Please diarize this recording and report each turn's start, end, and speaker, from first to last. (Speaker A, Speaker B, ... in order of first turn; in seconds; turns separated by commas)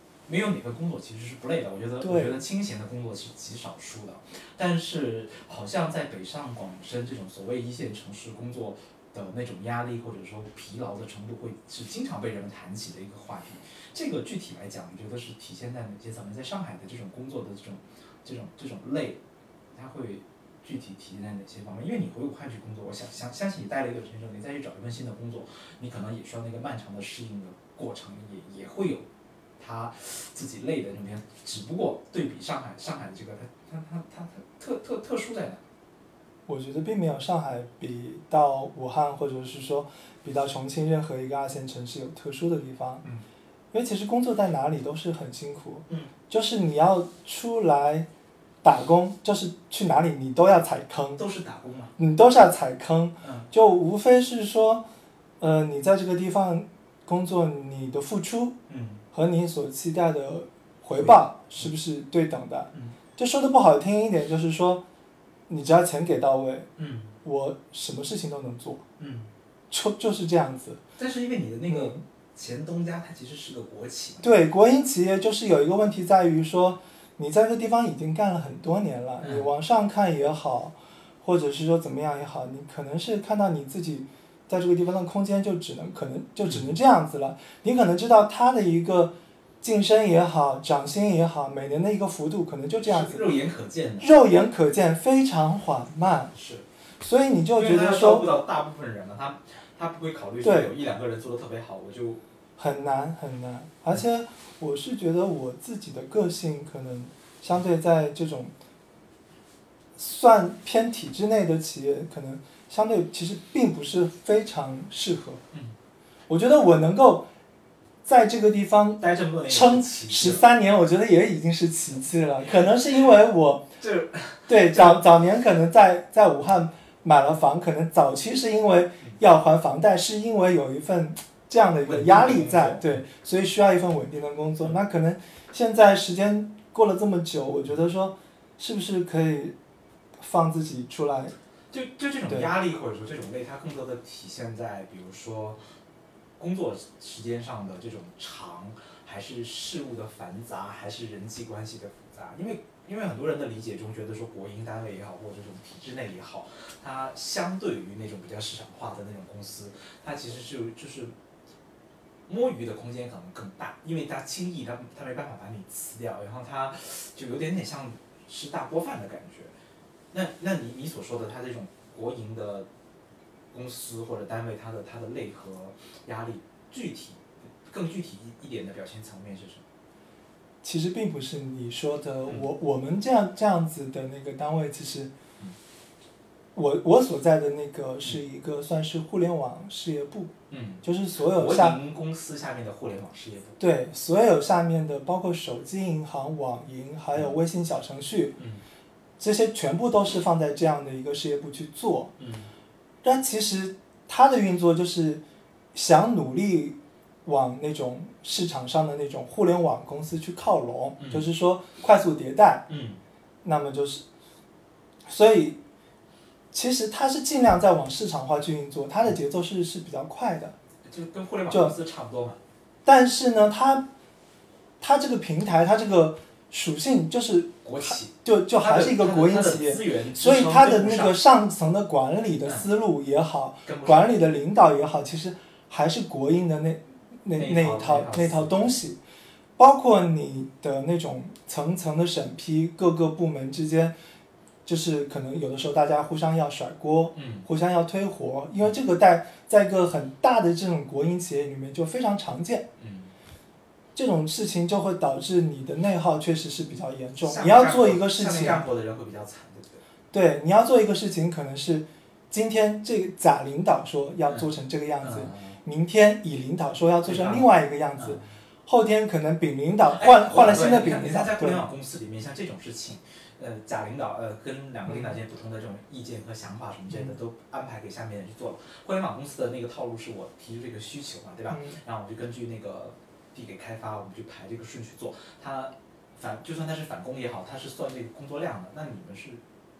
Speaker A: 0.3-19.2, Speaker B: 2.0-2.4, Speaker A: 19.7-29.1, Speaker A: 29.6-35.6, Speaker B: 36.5-43.0, Speaker B: 43.7-48.1, Speaker B: 48.6-51.2, Speaker A: 51.2-51.9, Speaker B: 52.0-54.9, Speaker A: 53.2-53.5, Speaker B: 55.4-58.6, Speaker A: 58.7-59.0, Speaker B: 59.1-64.8, Speaker A: 61.0-61.7, Speaker B: 65.5-66.7, Speaker A: 66.8-67.1, Speaker B: 67.2-68.8, Speaker A: 69.0-69.3, Speaker B: 69.7-70.8, Speaker A: 71.0-74.4, Speaker B: 71.7-72.0, Speaker B: 74.2-93.2, Speaker A: 79.2-79.5, Speaker A: 86.5-86.7, Speaker A: 92.8-94.1, Speaker B: 94.0-96.3, Speaker A: 96.3-96.6, Speaker B: 97.0-98.4, Speaker A: 97.5-102.2, Speaker B: 100.4-100.7, Speaker B: 102.6-108.5, Speaker B: 110.0-115.4, Speaker B: 116.3-117.3, Speaker B: 118.0-123.7, Speaker A: 119.0-120.4, Speaker A: 123.8-125.0, Speaker B: 124.5-139.6, Speaker A: 131.8-133.0, Speaker B: 140.2-141.3, Speaker A: 141.7-145.6, Speaker A: 146.4-161.1, Speaker A: 162.3-169.5, Speaker A: 170.1-172.7, Speaker A: 173.5-179.6, Speaker B: 180.6-185.1, Speaker B: 186.5-191.8, Speaker A: 190.5-193.6, Speaker B: 193.6-198.4, Speaker B: 199.2-202.1, Speaker A: 202.2-202.5, Speaker B: 203.0-205.2, Speaker B: 205.7-212.7, Speaker A: 211.0-211.2, Speaker A: 212.7-213.0, Speaker B: 213.4-214.0, Speaker B: 215.1-215.6, Speaker B: 216.5-220.5, Speaker A: 220.9-222.4, Speaker B: 221.5-221.7, Speaker B: 222.8-223.9, Speaker B: 224.8-239.0, Speaker A: 227.6-231.2, Speaker A: 233.7-234.2, Speaker A: 237.3-238.8, Speaker B: 239.6-243.9, Speaker B: 244.7-252.7, Speaker A: 247.1-247.4, Speaker A: 252.8-253.1, Speaker B: 253.9-258.6, Speaker A: 257.2-259.8, Speaker B: 260.1-271.6, Speaker A: 265.0-265.6, Speaker A: 267.0-268.2, Speaker A: 269.9-289.4, Speaker B: 274.9-275.1, Speaker B: 281.5-281.8